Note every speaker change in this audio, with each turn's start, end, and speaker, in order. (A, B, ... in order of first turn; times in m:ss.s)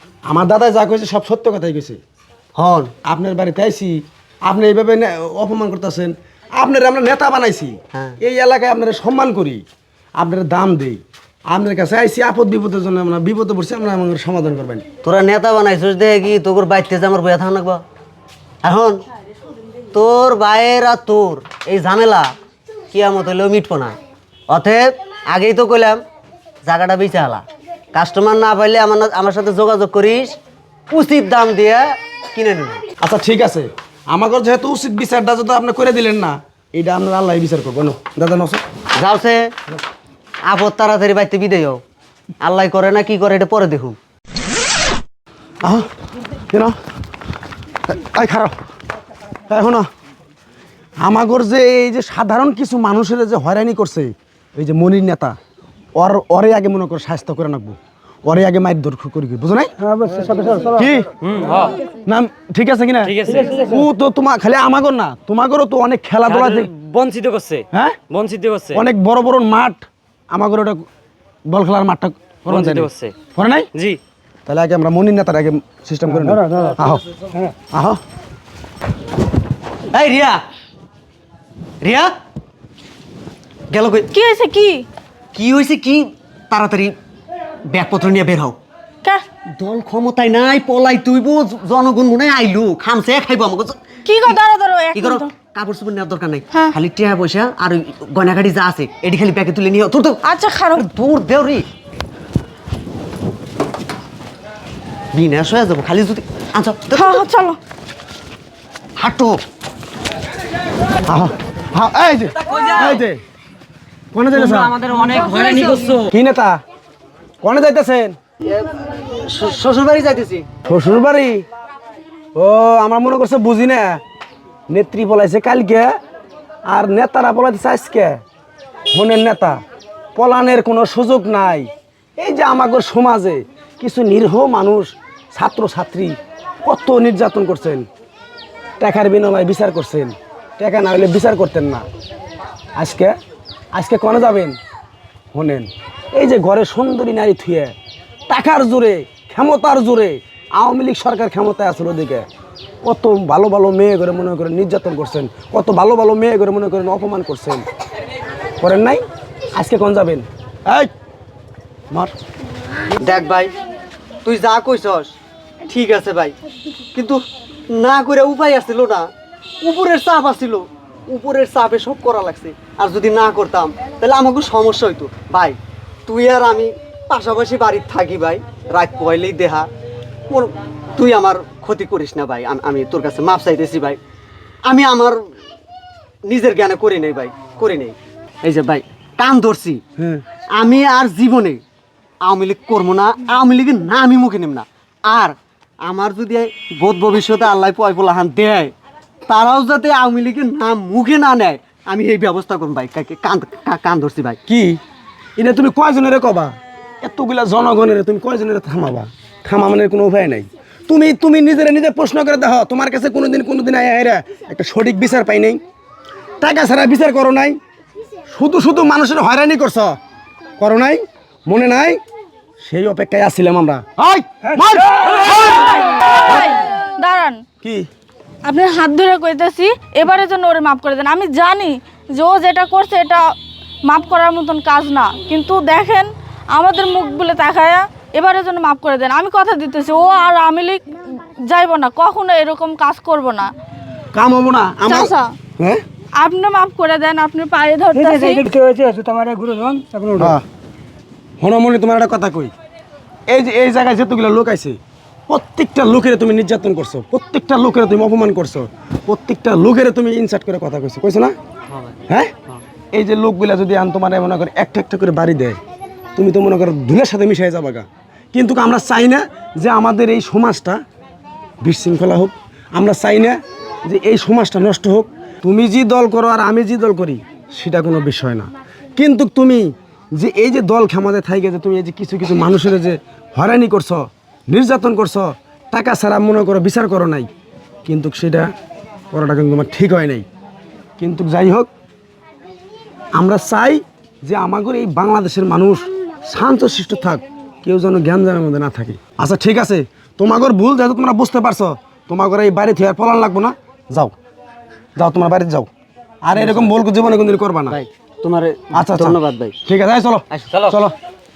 0:00.2-0:02.0 A
0:02.5-0:02.9 B
0:03.0-0:09.6 A
0:10.2-0:14.8 A
0:15.0-0:17.8 B
0:18.6-0:19.0 B
0:19.9-0:22.3 B
0:22.9-0:24.0 B
0:24.5-0:26.0 B
0:26.6-0:30.4 B
0:30.9-0:32.8 B
0:33.0-0:38.6 A
0:39.0-0:39.5 B
0:40.5-0:41.8 B
0:42.4-0:44.0 B
0:45.6-0:45.9 A
0:47.9-0:48.5 A
0:49.5-0:49.9 A
0:51.0-0:55.4 A
0:56.0-0:59.7 A
0:59.8-1:00.8 C
1:00.7-1:01.1 A
1:01.2-1:01.8 D
1:02.0-1:06.7 A
1:03.0-1:03.5 D
1:03.2-1:03.8 C
1:06.2-1:08.8 D
1:07.7-1:08.0 A
1:08.7-1:10.8 A
1:11.5-1:13.7 A
1:12.5-1:13.1 D
1:14.5-1:17.0 A
1:16.2-1:16.8 C
1:17.7-1:18.0 A
1:19.9-1:20.4 B
1:21.8-1:22.1 B
1:23.7-1:24.1 B
1:24.1-1:24.8 E
1:25.3-1:26.9 B
1:27.7-1:28.6 B
1:29.6-1:33.8 B
1:34.0-1:35.3 E
1:34.9-1:41.7 B
1:40.2-1:40.8 E
1:45.1-1:47.2 B
1:46.9-1:47.6 E
1:49.0-1:49.4 B
1:51.0-1:53.2 A
1:54.1-1:54.7 A
1:54.6-1:56.0 B
1:56.1-1:56.6 A
1:57.4-1:58.2 A
1:58.4-2:00.5 B
2:00.6-2:01.4 A
2:02.3-2:04.0 A
2:04.7-2:05.9 A
2:06.7-2:08.2 A
2:08.9-2:09.6 A
2:10.2-2:17.9 A
2:18.8-2:21.8 A
2:22.8-2:23.1 A
2:23.7-2:24.6 A
2:25.3-2:27.7 A
2:28.3-2:32.2 A
2:32.8-2:37.6 A
2:38.6-2:39.0 A
2:39.5-2:40.9 A
2:43.0-2:43.5 B
2:44.2-2:45.1 B
2:45.6-2:46.3 B
2:46.9-2:49.1 B
2:49.6-2:59.7 B
3:00.3-3:04.0 B
3:04.6-3:05.2 B
3:06.2-3:09.8 B
3:10.0-3:10.2 A
3:10.5-3:11.6 B
3:12.2-3:18.7 B
3:19.3-3:24.4 B
3:24.5-3:24.8 A
3:25.4-3:35.6 A
3:36.4-3:37.6 A
3:38.3-3:40.0 A
3:40.6-3:42.0 A
3:42.6-3:45.6 A
3:45.4-3:47.4 E
3:47.6-3:47.9 A
3:48.4-3:53.2 E
3:53.9-4:00.8 E
4:01.5-4:03.5 E
4:04.1-4:05.8 A
4:04.9-4:05.3 E
4:06.2-4:08.4 E
4:07.9-4:10.4 C
4:10.2-4:10.4 A
4:11.4-4:12.5 A
4:13.3-4:21.3 A
4:22.1-4:22.3 A
4:22.9-4:25.6 A
4:26.2-4:30.8 A
4:31.6-4:47.3 A
4:47.8-4:48.5 A
4:49.1-4:50.2 A
4:51.0-4:51.7 A
4:53.1-5:04.1 A
5:05.0-5:05.7 A
5:06.2-5:07.8 A
5:06.4-5:06.7 B
5:07.7-5:09.6 B
5:08.7-5:10.9 A
5:10.3-5:10.7 B